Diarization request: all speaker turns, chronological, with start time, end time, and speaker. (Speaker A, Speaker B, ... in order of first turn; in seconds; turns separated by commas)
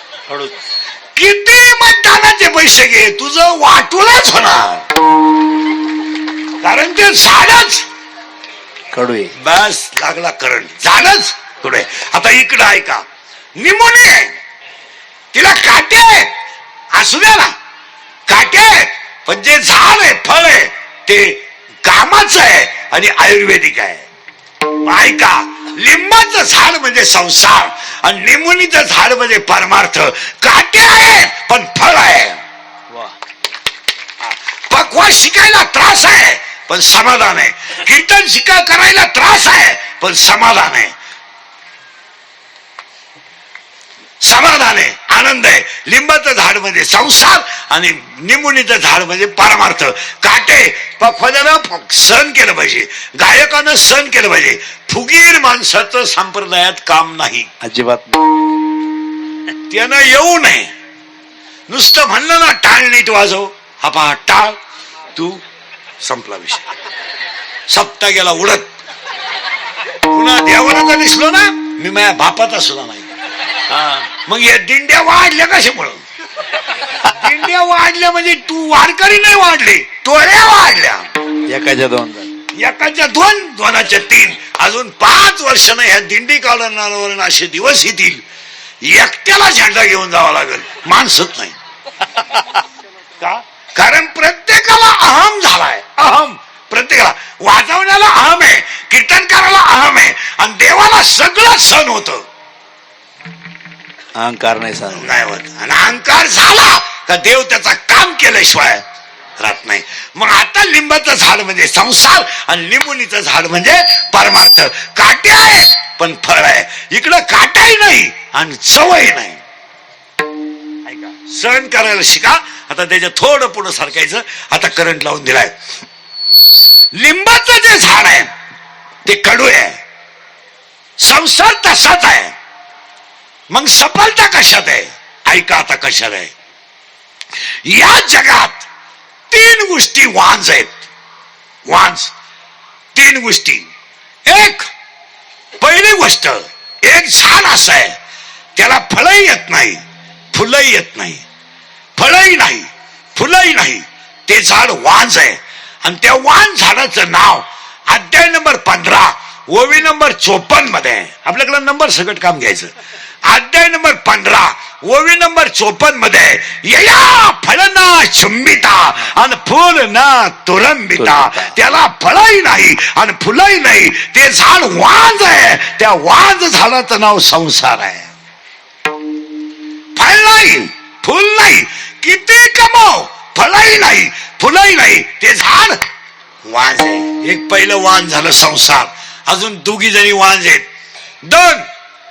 Speaker A: 1.1-4.8, Speaker A: 6.6-7.8, Speaker B: 8.9-9.3, Speaker A: 9.4-13.0, Speaker A: 13.6-14.3, Speaker A: 15.3-16.3, Speaker A: 16.9-17.5, Speaker A: 18.3-24.0, Speaker A: 24.8-32.4, Speaker A: 34.2-40.9, Speaker A: 44.2-57.5, Speaker B: 57.6-58.3, Speaker A: 59.7-60.7, Speaker A: 61.7-64.6, Speaker A: 65.1-65.4, Speaker A: 66.0-66.6, Speaker A: 67.7-68.7, Speaker A: 70.1-73.1, Speaker A: 73.7-76.0, Speaker A: 77.0-81.1, Speaker B: 81.5-82.3, Speaker A: 82.5-88.2, Speaker A: 88.8-91.5, Speaker A: 93.2-102.2, Speaker B: 104.1-105.1, Speaker A: 104.9-108.8, Speaker A: 109.4-119.4, Speaker A: 120.8-125.5, Speaker A: 126.9-128.3, Speaker A: 129.0-129.8, Speaker A: 131.0-132.3, Speaker A: 133.5-136.3, Speaker A: 137.6-138.7, Speaker A: 139.3-140.8, Speaker A: 141.7-142.1, Speaker A: 142.9-143.7, Speaker A: 144.2-144.7, Speaker A: 145.6-147.9, Speaker A: 148.6-149.8, Speaker A: 150.3-151.2, Speaker A: 152.0-162.7, Speaker A: 163.2-178.1, Speaker B: 171.0-171.5, Speaker A: 179.9-185.8, Speaker A: 186.4-190.7, Speaker A: 191.2-191.7